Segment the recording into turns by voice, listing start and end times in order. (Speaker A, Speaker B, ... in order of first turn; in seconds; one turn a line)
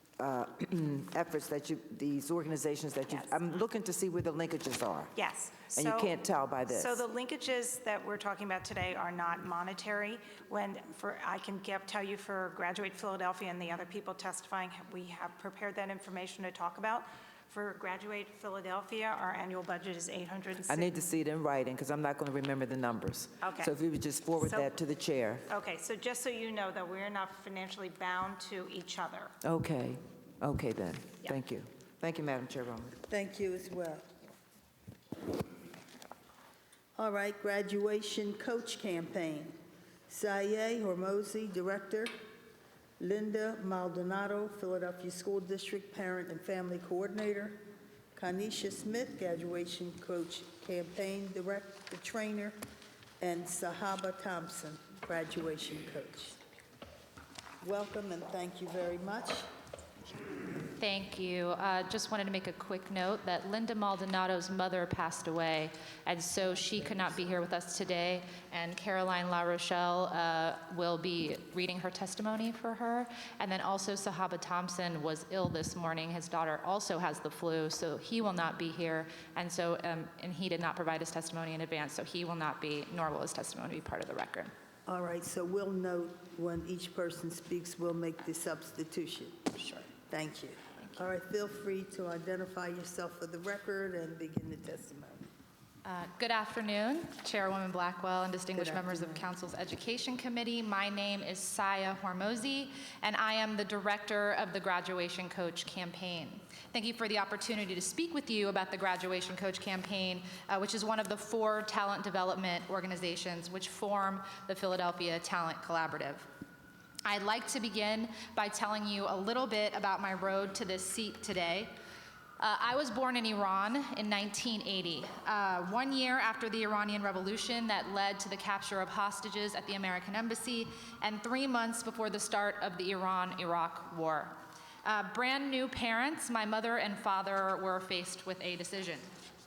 Speaker A: 0.2-5.1
Speaker B: 3.1-3.4
Speaker B: 5.1-6.2
Speaker A: 5.7-7.0
Speaker B: 6.7-20.9
Speaker A: 20.7-25.4
Speaker B: 23.4-23.7
Speaker B: 24.4-24.7
Speaker B: 25.4-29.3
Speaker A: 29.4-33.0
Speaker C: 33.1-34.1
Speaker C: 37.0-39.5
Speaker C: 40.1-42.1
Speaker C: 43.0-47.6
Speaker C: 48.1-52.6
Speaker C: 53.2-56.4
Speaker C: 57.6-59.5
Speaker D: 60.8-84.5
Speaker C: 84.8-95.3
Speaker D: 90.8-91.0
Speaker D: 95.8-116.2
Speaker C: 98.6-99.2
Speaker D: 117.0-121.7
Speaker D: 122.4-139.1